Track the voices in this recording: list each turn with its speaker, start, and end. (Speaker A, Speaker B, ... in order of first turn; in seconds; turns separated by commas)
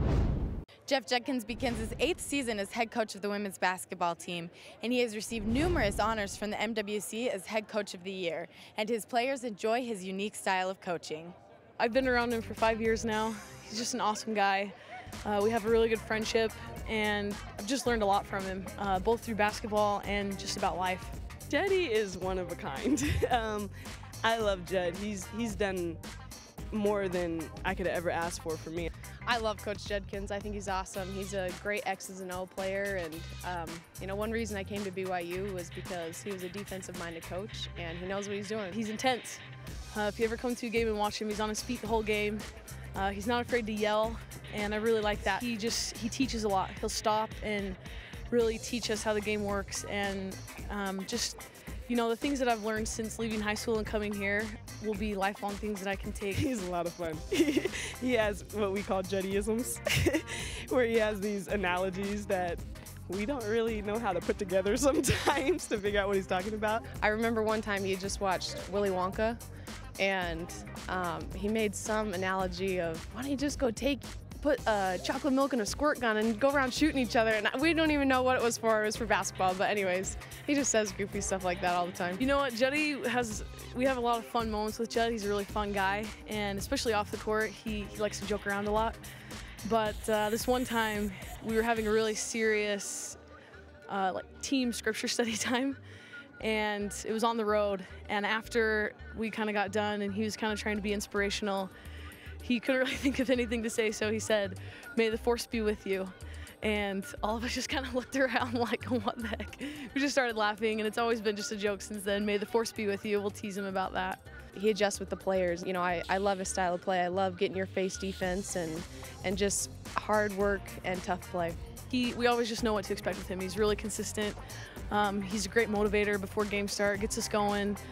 Speaker A: 0.9-11.3, Speaker B: 11.8-21.2, Speaker C: 21.5-23.7, Speaker C: 24.2-26.0, Speaker C: 26.7-28.9, Speaker D: 29.2-38.8, Speaker B: 38.7-47.8, Speaker B: 48.3-56.5, Speaker C: 56.3-66.9, Speaker D: 66.9-69.4, Speaker D: 70.0-82.2, Speaker B: 82.2-89.0, Speaker B: 89.6-93.2, Speaker B: 93.9-95.8, Speaker B: 96.4-101.7, Speaker B: 102.4-114.2, Speaker D: 114.5-121.6, Speaker B: 121.9-127.8